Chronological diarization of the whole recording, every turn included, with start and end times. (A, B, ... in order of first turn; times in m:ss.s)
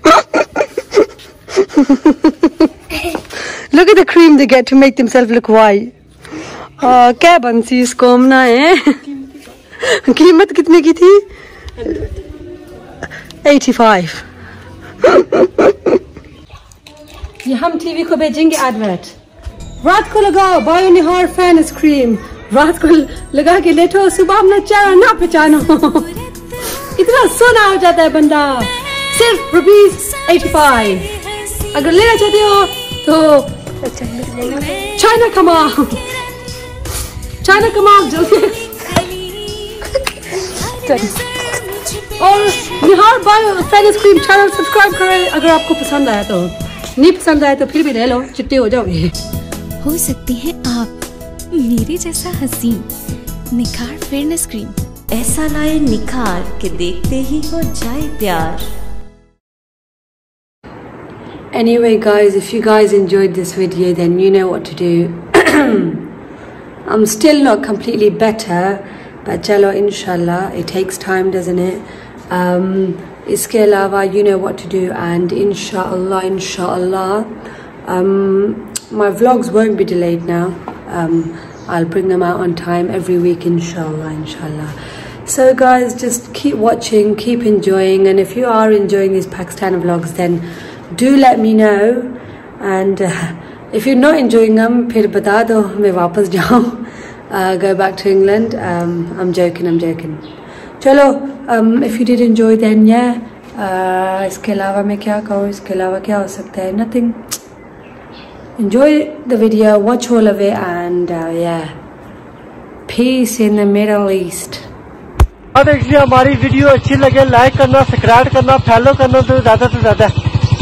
0:01.7-0:02.3 A
0:03.6-0:05.9 A
0:06.8-0:09.1 A
0:09.8-0:11.3 A
0:11.8-0:12.1 A
0:13.4-0:14.3 A
0:15.0-0:15.5 A
0:17.4-0:19.2 A
0:19.8-0:26.2 A
0:26.4-0:27.0 B
0:26.8-0:31.1 A
0:30.6-0:32.1 B
0:31.7-0:36.0 A
0:34.3-0:35.8 B
0:37.4-0:39.0 A
0:37.5-0:39.9 B
0:40.3-0:41.2 A
0:40.4-0:44.2 B
0:42.2-0:49.1 A
0:49.8-0:51.0 B
0:51.5-0:52.9 B
0:53.5-0:54.8 B
0:55.1-0:58.7 C
1:01.5-1:06.1 A
1:06.8-1:17.3 A
1:17.8-1:40.2 A
1:40.8-1:47.2 A
1:48.6-1:51.8 A
1:52.9-1:54.6 A
1:55.6-2:00.2 D